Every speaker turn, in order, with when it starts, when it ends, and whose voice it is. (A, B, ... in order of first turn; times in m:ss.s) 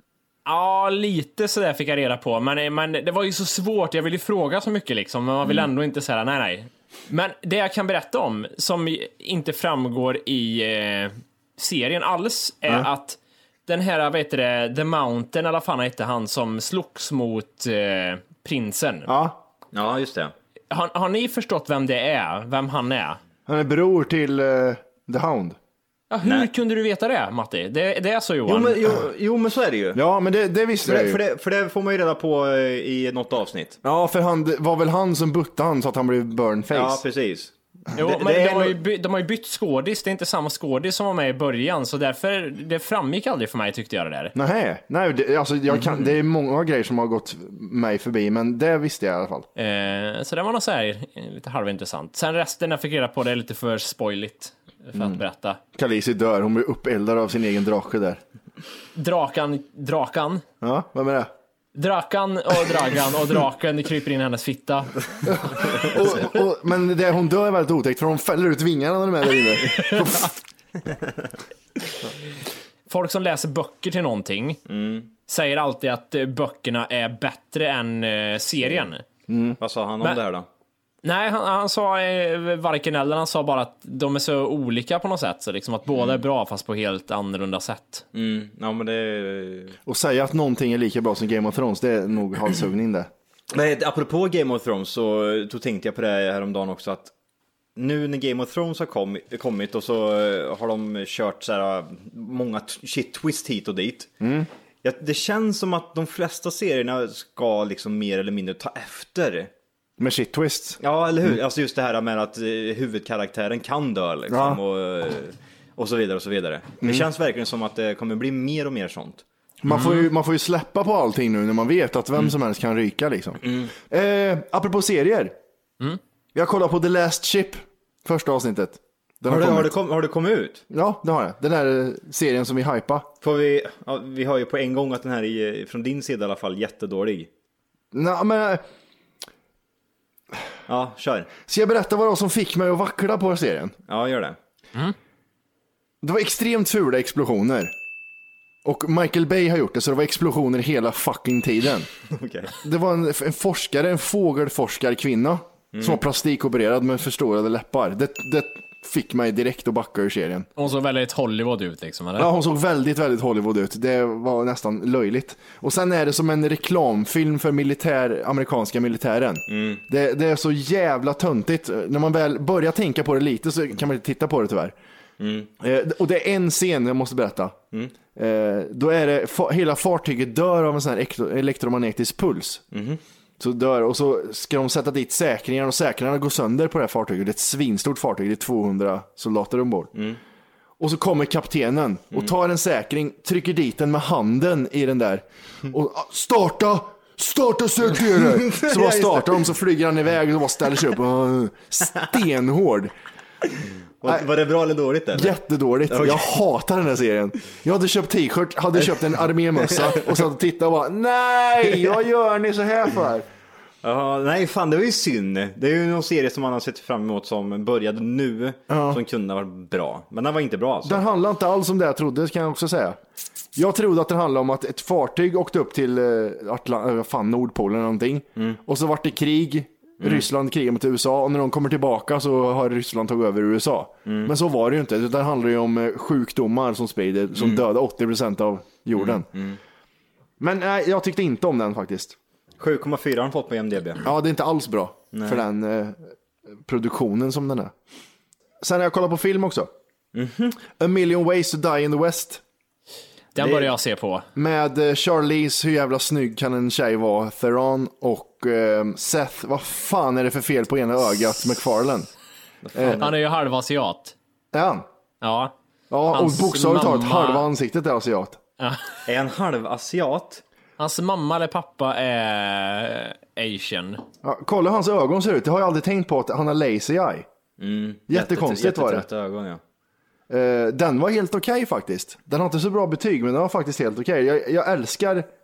0:00.5-0:19.1 A
0:19.1-0:19.4 B
0:19.7-0:20.3 C
0:20.7-0:23.2 A
0:23.5-0:25.6 B
0:26.1-0:28.8 A
0:26.2-0:26.5 C
0:28.5-0:30.0 C
0:29.9-0:31.2 B
0:30.8-0:33.8 C
0:33.8-0:37.0 B
0:36.7-0:38.8 C
0:38.0-0:44.3 A
0:44.4-0:49.5 B
0:49.6-0:55.6 A
0:55.7-0:58.2 B
0:59.0-1:00.4 A
1:00.6-1:01.3 B
1:01.8-1:04.9 A
1:05.3-1:10.3 B
1:12.9-1:14.6 A
1:14.7-1:15.1 C
1:15.3-1:19.0 A
1:19.3-1:19.6 B
1:19.6-1:20.5 C
1:21.0-1:28.0 A
1:28.1-1:29.8 C
1:29.9-1:33.1 B
1:33.5-1:37.1 C
1:37.8-1:44.1 C
1:44.2-1:44.5 B
1:44.8-1:49.5 C
1:50.0-1:50.8 B
1:50.8-1:59.2 C
1:54.3-1:54.6 B
1:56.8-1:57.1 B
1:59.6-2:05.3 B
1:59.7-2:00.0 A
2:03.4-2:03.7 C
2:06.4-2:09.8 B
2:09.3-2:10.6 C
2:10.7-2:13.1 B
2:13.2-2:17.3 C
2:17.9-2:18.6 B
2:20.7-2:21.3 C
2:21.5-2:23.8 B
2:23.9-2:24.4 C
2:26.0-2:27.7 B
2:28.6-2:31.9 B
2:32.1-2:32.5 C
2:32.6-2:40.5 B
2:35.7-2:36.0 C
2:40.6-2:42.3 A
2:42.2-2:54.8 B
2:49.5-2:49.8 C
2:55.2-2:55.5 C
2:55.6-2:57.6 B
2:58.2-3:02.6 B
3:02.7-3:03.0 C
3:03.4-3:09.9 B
3:10.8-3:22.9 B
3:18.2-3:19.5 C
3:24.0-3:25.4 C
3:25.1-3:33.3 B
3:25.9-3:26.3 C
3:29.8-3:30.1 C
3:33.8-3:41.0 C
3:38.7-3:39.0 B
3:40.8-3:43.0 B
3:43.6-3:59.3 B
3:50.0-3:50.3 C
3:54.1-3:54.3 C
3:57.4-3:57.6 C
3:58.9-3:59.6 C
4:00.4-4:02.2 B
4:02.6-4:04.1 C
4:04.0-4:06.0 B
4:05.1-4:05.4 C
4:06.6-4:07.7 B
4:08.6-4:09.7 B
4:10.1-4:10.6 C
4:10.8-4:12.4 B
4:13.4-4:14.3 A
4:14.4-4:22.1 B
4:22.6-4:23.2 C
4:22.8-4:23.0 B
4:23.0-4:24.2 A
4:24.5-4:24.9 B
4:25.2-4:25.5 A
4:25.9-4:28.4 B
4:26.1-4:27.5 A
4:29.1-4:30.4 C
4:30.8-4:34.0 A
4:34.2-4:37.3 B
4:37.6-4:39.6 C
4:38.1-4:39.1 B
4:40.3-4:45.3 B